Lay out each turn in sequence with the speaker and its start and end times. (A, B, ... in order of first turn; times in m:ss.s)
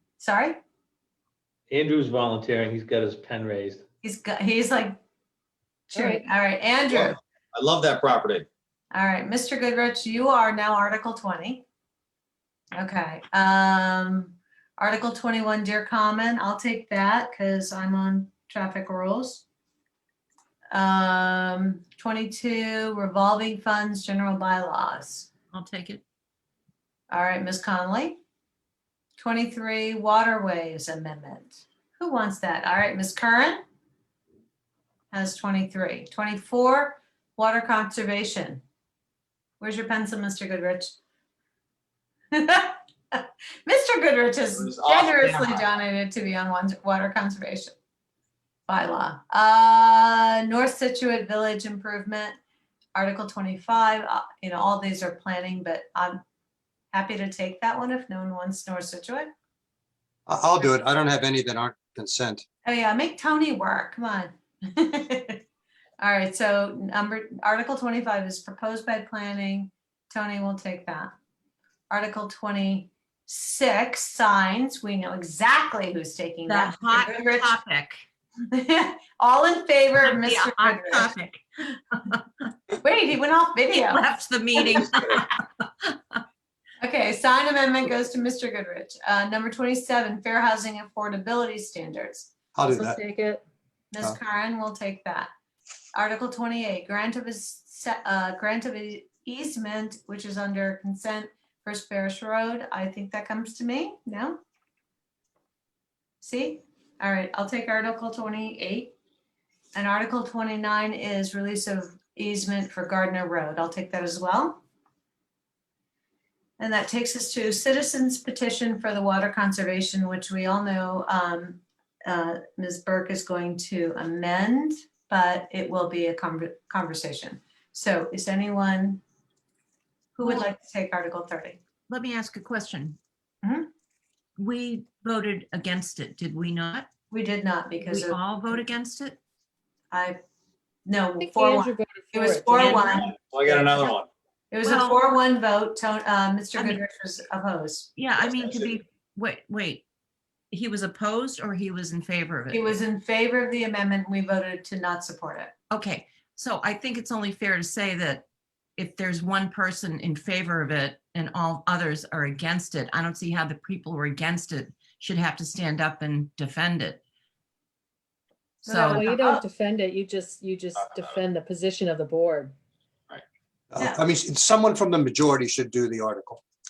0:00.2-0:00.6 A
0:01.7-0:03.8 B
0:04.0-0:05.0 A
0:05.9-0:07.2 A
0:06.0-0:06.3 C
0:06.9-0:08.5 D
0:08.9-0:11.6 A
0:12.8-0:19.4 A
0:20.7-0:25.3 A
0:25.5-0:26.0 E
0:27.1-0:28.2 A
0:29.2-0:33.6 A
0:35.1-0:38.6 A
0:39.6-0:41.0 A
0:42.3-0:47.7 A
0:44.6-0:45.5 D
0:48.7-0:52.4 A
0:53.0-0:56.2 A
0:56.9-0:59.3 A
1:00.3-1:02.4 F
1:02.6-1:05.4 A
1:06.0-1:11.1 A
1:11.9-1:17.5 A
1:16.5-1:18.0 E
1:18.5-1:21.1 A
1:20.0-1:22.5 E
1:22.8-1:24.0 A
1:23.9-1:26.2 E
1:26.8-1:32.3 A
1:32.6-1:33.0 F
1:32.7-1:33.4 C
1:33.9-1:35.3 A
1:36.0-1:44.4 A
1:46.2-1:48.9 A
1:49.8-1:54.6 A
1:56.6-2:09.0 A
2:10.2-2:11.6 A
2:11.9-2:13.0 E
2:13.4-2:13.7 A
2:14.4-2:16.9 E
2:17.1-2:18.6 A
2:17.8-2:19.2 E
2:19.9-2:20.2 A
2:20.9-2:23.1 A
2:21.2-2:24.0 C
2:22.5-2:23.0 E
2:23.0-2:24.1 D
2:24.5-2:27.9 A
2:24.6-2:25.0 E
2:28.0-2:29.8 E
2:28.3-2:28.7 D
2:30.5-2:32.8 E
2:32.5-2:35.5 A
2:35.7-2:38.2 E
2:38.8-2:47.0 E
2:48.6-2:49.4 A
2:48.6-2:49.1 E
2:48.9-2:52.6 C
2:53.7-2:56.4 F
2:53.8-2:54.0 A